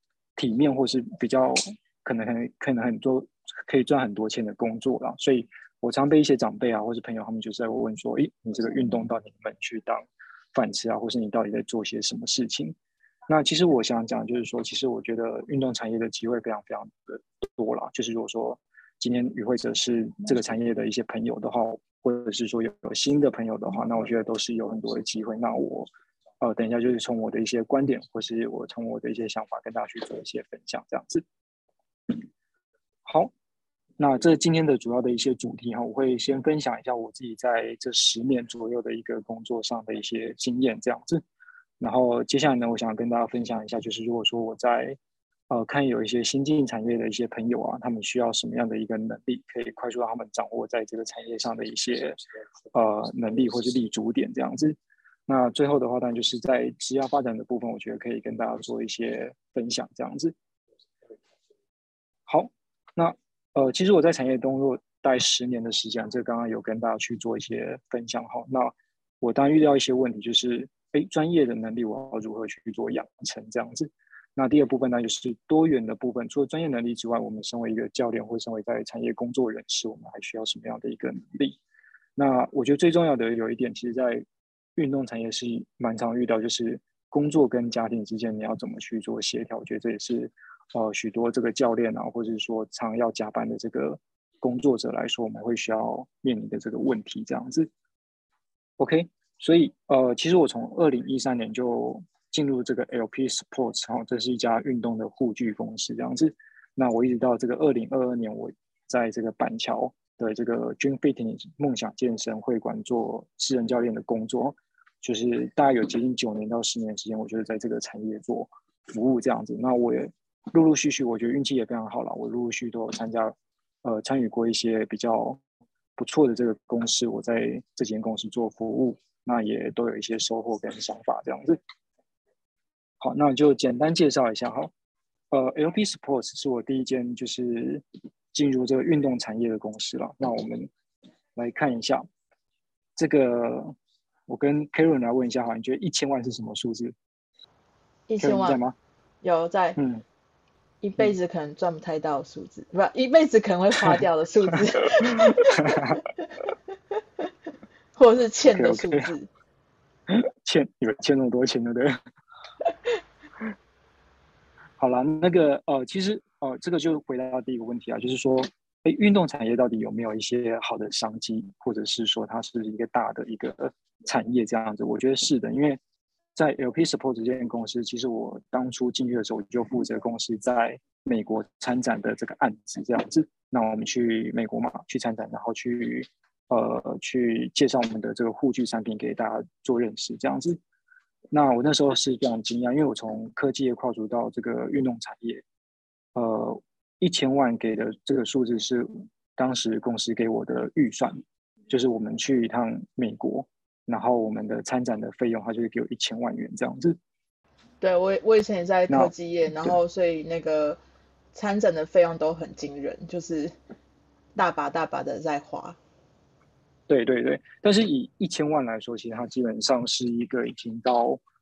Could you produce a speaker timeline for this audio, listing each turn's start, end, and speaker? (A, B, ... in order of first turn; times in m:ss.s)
0:00.4-0:12.8 A
0:13.3-0:25.9 A
0:26.4-0:31.2 A
0:33.0-0:33.3 A
0:34.0-0:41.2 A
0:41.8-0:45.0 A
0:45.5-0:52.2 A
0:52.7-0:54.8 A
0:55.3-1:00.3 A
1:02.3-1:21.6 A
1:22.2-1:24.2 A
1:24.8-1:37.7 A
1:38.8-2:05.4 A
2:06.0-2:11.6 A
2:13.0-2:14.7 A
2:15.3-2:20.7 A
2:21.3-2:22.1 A
2:23.0-2:23.7 A
2:24.3-2:26.9 A
2:28.1-2:28.6 B
2:28.2-2:28.8 A
2:29.2-2:29.8 B
2:29.8-2:30.0 A
2:30.8-2:36.0 B
2:35.0-2:36.0 A
2:38.0-2:39.3 B
2:38.5-2:39.1 A
2:40.1-2:42.0 A
2:44.8-2:55.8 A
2:56.3-3:10.6 A
3:11.3-3:15.4 A
3:16.1-3:27.0 A
3:27.8-3:30.8 B
3:28.9-3:29.8 A
3:31.3-3:33.5 B
3:34.3-3:35.8 B
3:36.9-3:41.2 A